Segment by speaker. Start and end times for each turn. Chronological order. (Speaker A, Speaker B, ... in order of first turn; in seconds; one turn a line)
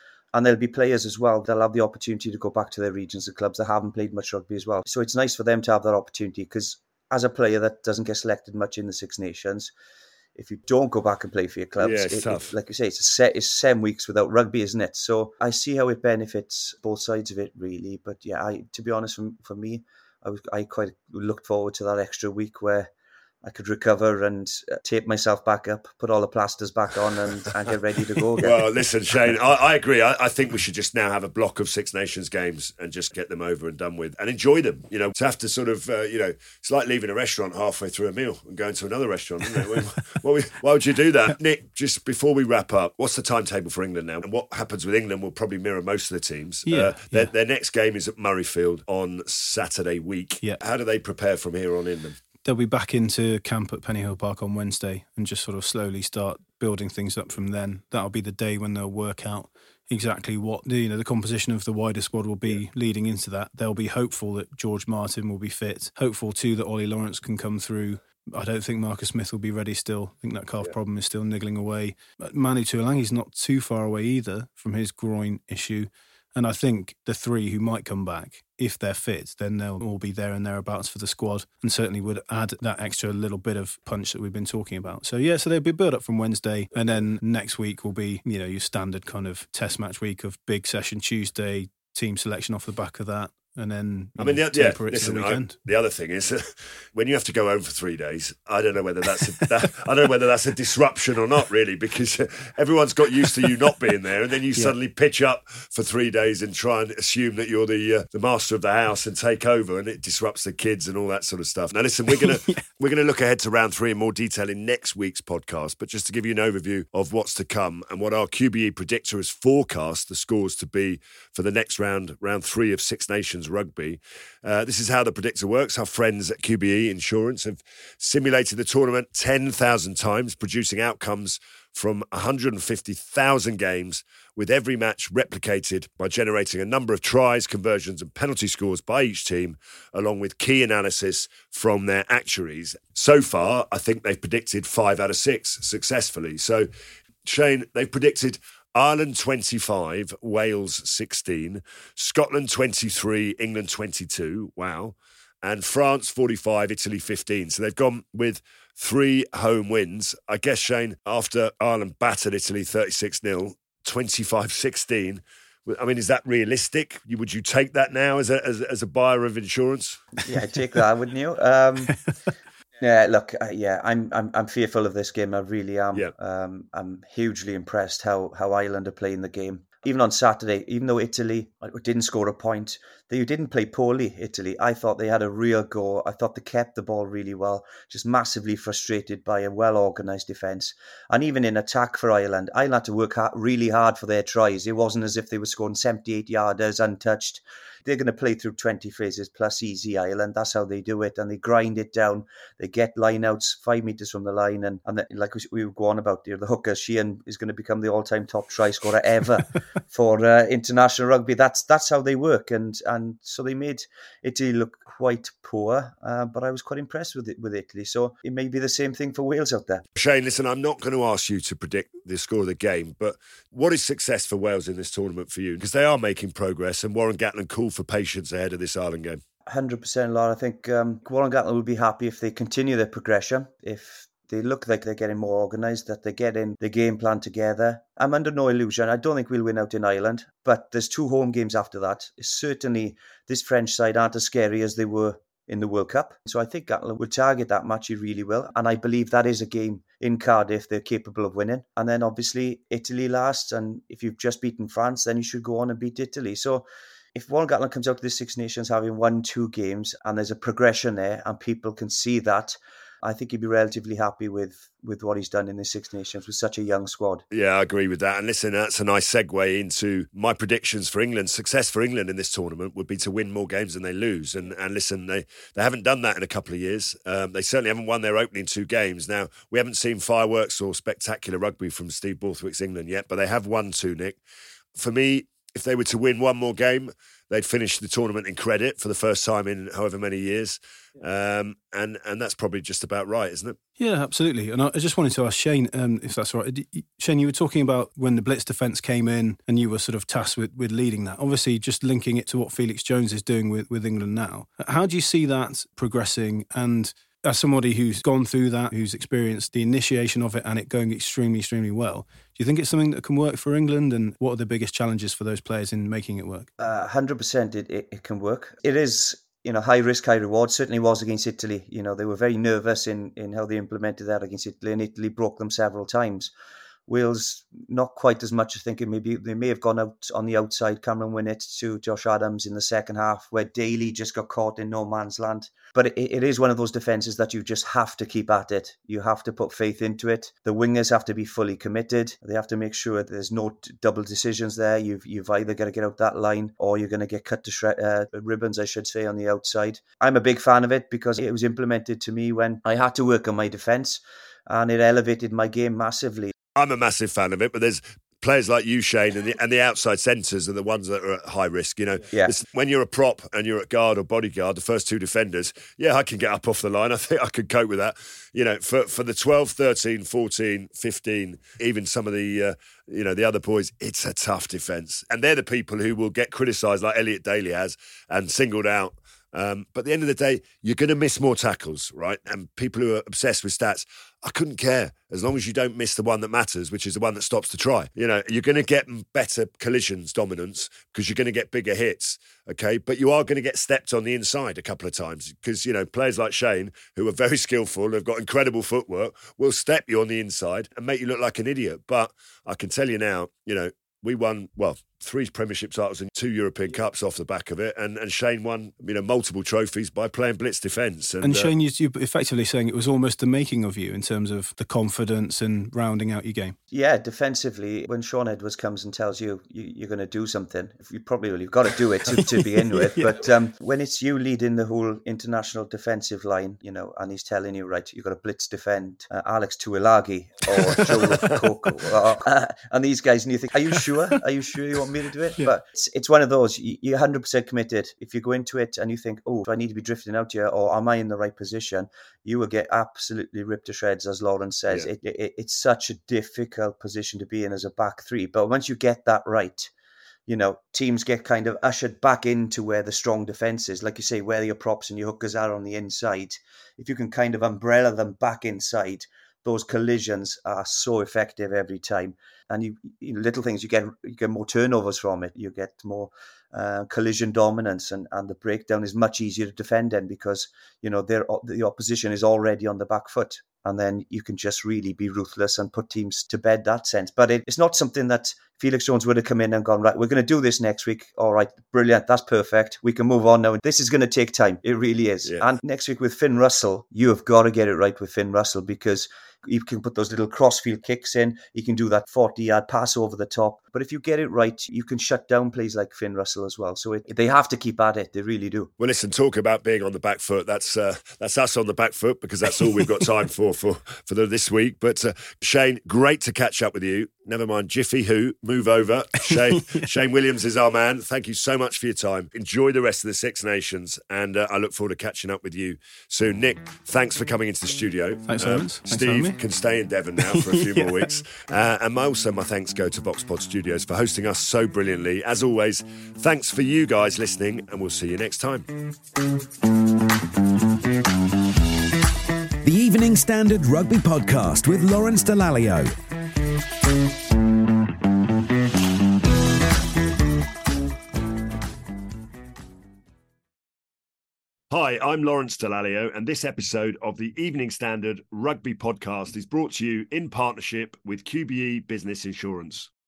Speaker A: 0.3-9.7
Speaker A: 10.3-22.9
Speaker B: 11.8-12.5
Speaker A: 23.4-28.6
Speaker B: 28.4-52.2
Speaker C: 46.7-47.3
Speaker C: 52.4-95.5
Speaker B: 94.2-146.7
Speaker C: 112.1-112.6
Speaker B: 147.2-170.0
Speaker A: 170.2-172.0
Speaker A: 172.8-219.8
Speaker B: 219.9-229.2
Speaker A: 229.4-267.2
Speaker B: 267.3-284.2
Speaker B: 284.8-293.6
Speaker C: 293.8-316.5
Speaker A: 316.6-326.3
Speaker A: 326.9-356.3
Speaker B: 356.6-411.5
Speaker C: 411.2-416.6
Speaker A: 416.7-449.7
Speaker C: 422.1-423.2
Speaker B: 430.8-431.4
Speaker A: 450.3-498.7
Speaker B: 498.8-528.7
Speaker C: 509.3-509.9
Speaker C: 518.3-519.4
Speaker C: 520.2-521.1
Speaker D: 532.6-535.9
Speaker B: 544.7-552.9